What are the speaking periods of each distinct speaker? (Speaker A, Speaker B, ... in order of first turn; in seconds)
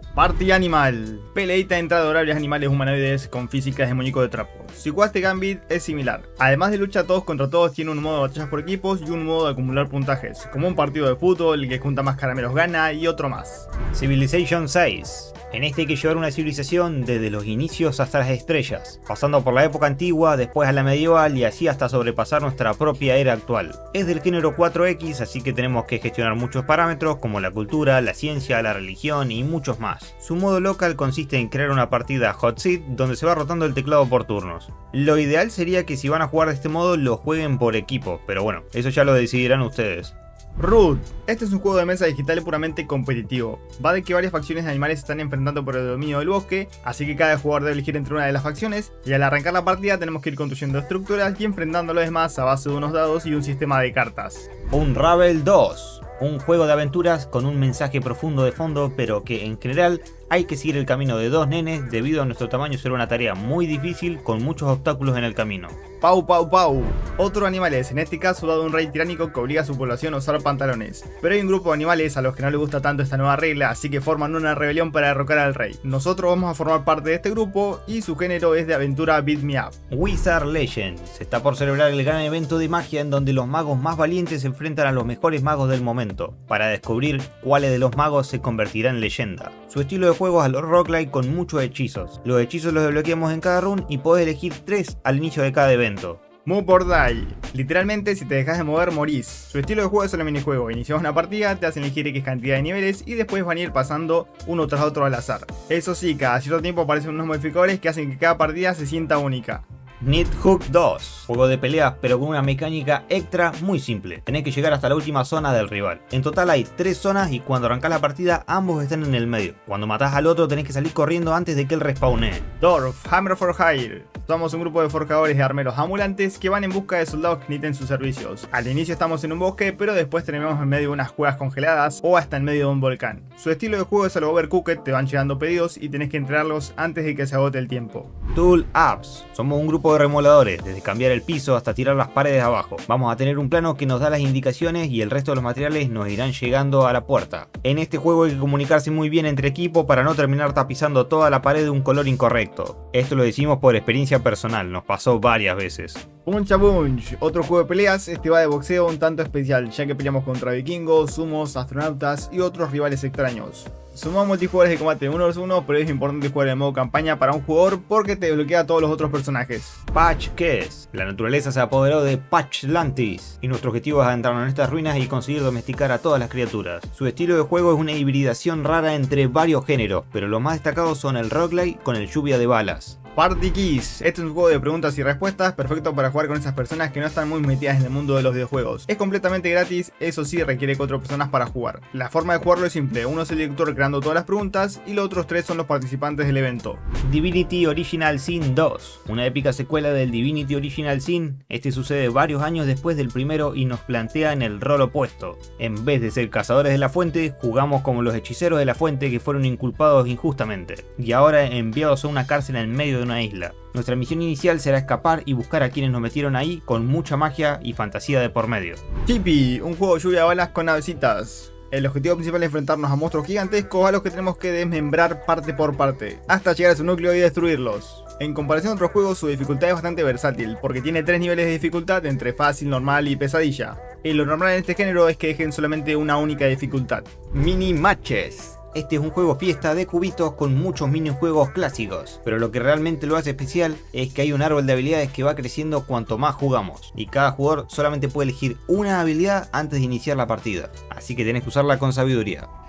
Speaker A: 0.1-13.7, 40.6-54.5, 66.0-79.7, 96.4-109.7, 122.6-138.1, 156.2-169.8, 183.2-196.8, 219.1-237.1
Speaker B: 13.9-40.1, 54.7-65.8, 79.9-96.2, 110.0-122.4, 138.3-156.0, 169.9-183.0, 197.0-218.8, 237.3-252.5